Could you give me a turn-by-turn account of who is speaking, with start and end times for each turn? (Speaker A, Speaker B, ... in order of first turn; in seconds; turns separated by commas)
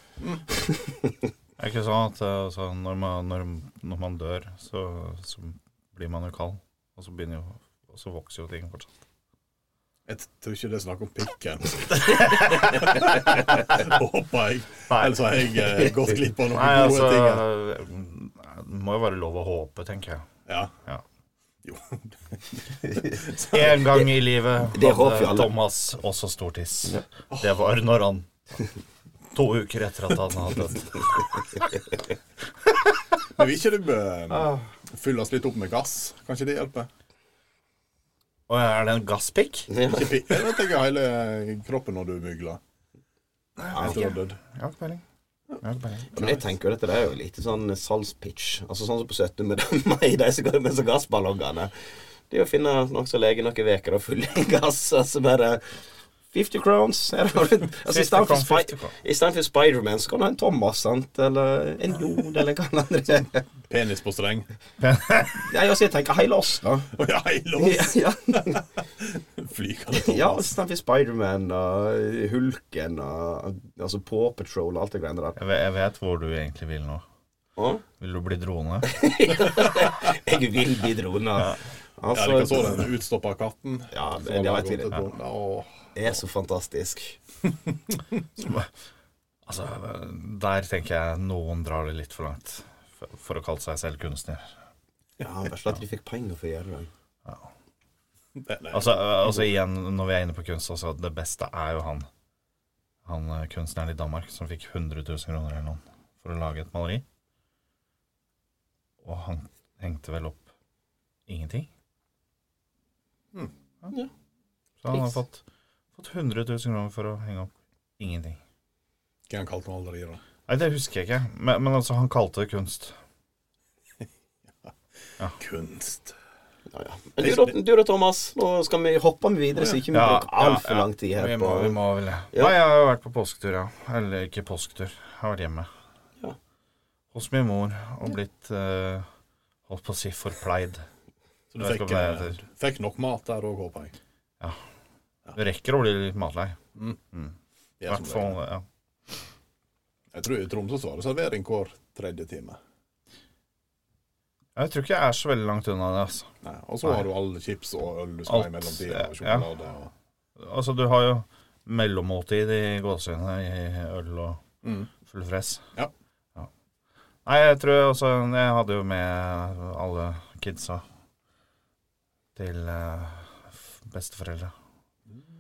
Speaker A: 0.5-1.3, Speaker B: 1.6-8.9, Speaker C: 10.1-17.4, Speaker B: 11.9-13.6, Speaker B: 14.9-15.9, Speaker B: 16.5-20.3, Speaker C: 20.5-20.7, Speaker C: 21.6-23.8, Speaker B: 23.4-28.3, Speaker A: 24.6-25.5, Speaker B: 29.3-31.7, Speaker C: 33.3-36.9, Speaker B: 38.5-39.7, Speaker A: 39.7-40.2, Speaker C: 39.9-42.6, Speaker B: 43.6-45.0, Speaker A: 43.7-44.1, Speaker C: 43.7-44.4, Speaker B: 45.6-46.2, Speaker A: 46.1-51.7, Speaker A: 52.3-55.6, Speaker A: 56.3-63.5, Speaker B: 57.9-58.9, Speaker C: 63.7-64.5, Speaker B: 64.8-65.4, Speaker A: 65.3-66.9, Speaker C: 66.9-70.5, Speaker A: 67.6-68.6, Speaker A: 69.9-75.4, Speaker B: 75.4-77.0, Speaker A: 77.6-77.8, Speaker B: 78.0-79.0, Speaker A: 78.8-82.9, Speaker C: 82.1-85.7, Speaker A: 83.9-85.0, Speaker A: 86.0-87.2, Speaker C: 87.7-88.0, Speaker B: 88.4-88.7, Speaker B: 89.5-94.5, Speaker A: 95.2-96.9, Speaker C: 98.3-99.5, Speaker B: 98.7-102.1, Speaker B: 103.0-107.0, Speaker B: 109.0-110.5, Speaker B: 111.3-111.7, Speaker B: 114.8-115.4, Speaker B: 116.0-118.4, Speaker C: 119.3-120.2, Speaker B: 120.5-123.0, Speaker C: 125.4-126.2, Speaker A: 126.7-131.8, Speaker C: 127.2-127.5, Speaker C: 129.6-129.8, Speaker B: 129.9-135.7, Speaker B: 137.1-139.1, Speaker B: 139.7-140.8, Speaker C: 141.5-143.9, Speaker B: 141.6-142.4, Speaker B: 145.3-146.6, Speaker C: 147.8-148.4, Speaker B: 147.9-148.7, Speaker C: 150.1-152.6, Speaker B: 154.6-156.3, Speaker C: 156.4-159.9, Speaker B: 158.3-159.5, Speaker B: 160.4-164.4, Speaker C: 164.6-164.9, Speaker B: 165.1-165.6, Speaker B: 167.3-170.8, Speaker B: 172.4-174.5